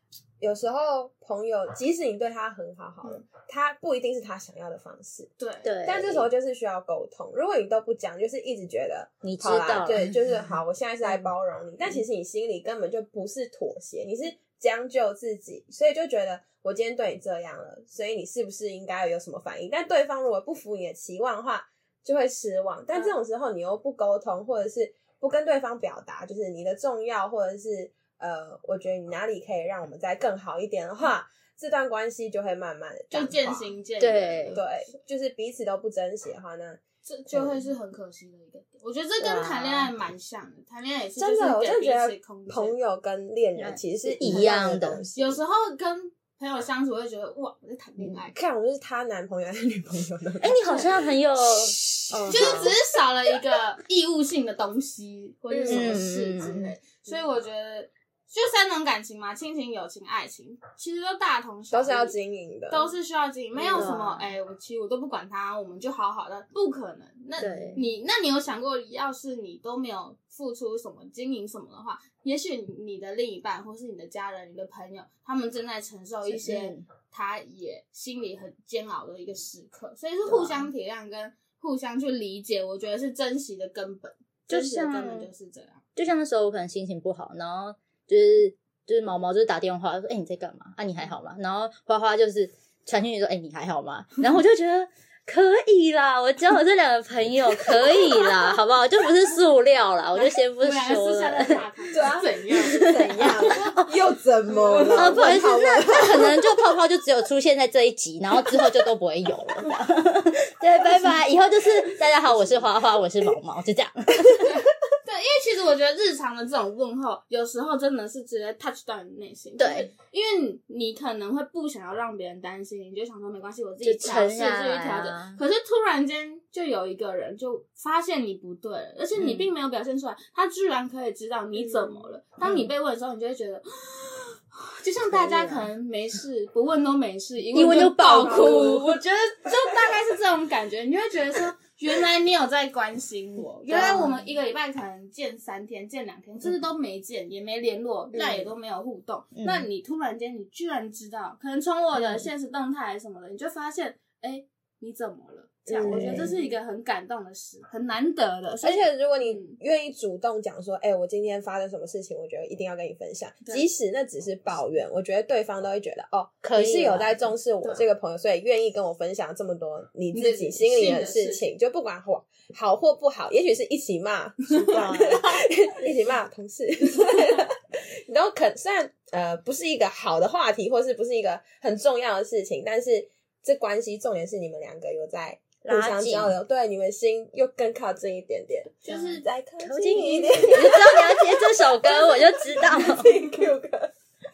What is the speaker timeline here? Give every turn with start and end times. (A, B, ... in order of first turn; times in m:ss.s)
0:00.4-0:05.3 A
0:05.4-0:05.7 B
0:05.6-0:06.3 C
0:05.8-0:33.7 A
0:09.2-0:10.2 C
0:33.1-0:35.0 B
0:34.0-0:34.6 C
0:34.5-0:37.6 A
0:37.0-0:42.7 B
0:39.2-0:39.9 C
0:41.2-0:45.4 A
0:43.6-0:45.0 C
0:45.1-0:48.4 B
0:48.3-0:51.1 A
0:50.4-0:52.7 C
0:52.1-0:52.7 A
0:52.3-1:02.2 B
0:55.5-0:56.0 A
0:55.7-0:56.8 C
1:01.7-1:02.9 A
1:02.7-1:25.8 B
1:03.5-1:04.0 A
1:03.7-1:04.3 C
1:07.4-1:07.8 C
1:16.3-1:16.8 C
1:20.3-1:20.7 C
1:24.5-1:25.3 C
1:26.0-1:41.6 C
1:40.1-1:43.6 B
1:41.9-1:46.5 A
1:42.6-1:43.9 C
1:44.5-1:45.5 B
1:44.8-1:54.6 C
1:55.0-2:39.6 B
1:59.6-1:59.9 C
2:03.8-2:05.4 C
2:09.2-2:09.5 C
2:11.6-2:12.0 A
2:12.4-2:12.7 C
2:15.1-2:15.6 C
2:17.5-2:19.0 C
2:23.7-2:24.2 C
2:23.7-2:24.0 A
2:28.1-2:28.5 A
2:29.4-2:29.7 C
2:31.9-2:32.3 C
2:35.7-2:36.3 A
2:35.8-2:36.3 C
2:38.6-3:13.9 A
2:46.4-2:47.2 C
2:50.1-2:51.4 B
2:54.6-2:55.4 C
3:05.6-3:06.3 C
3:08.8-3:09.2 B
3:09.6-3:13.1 C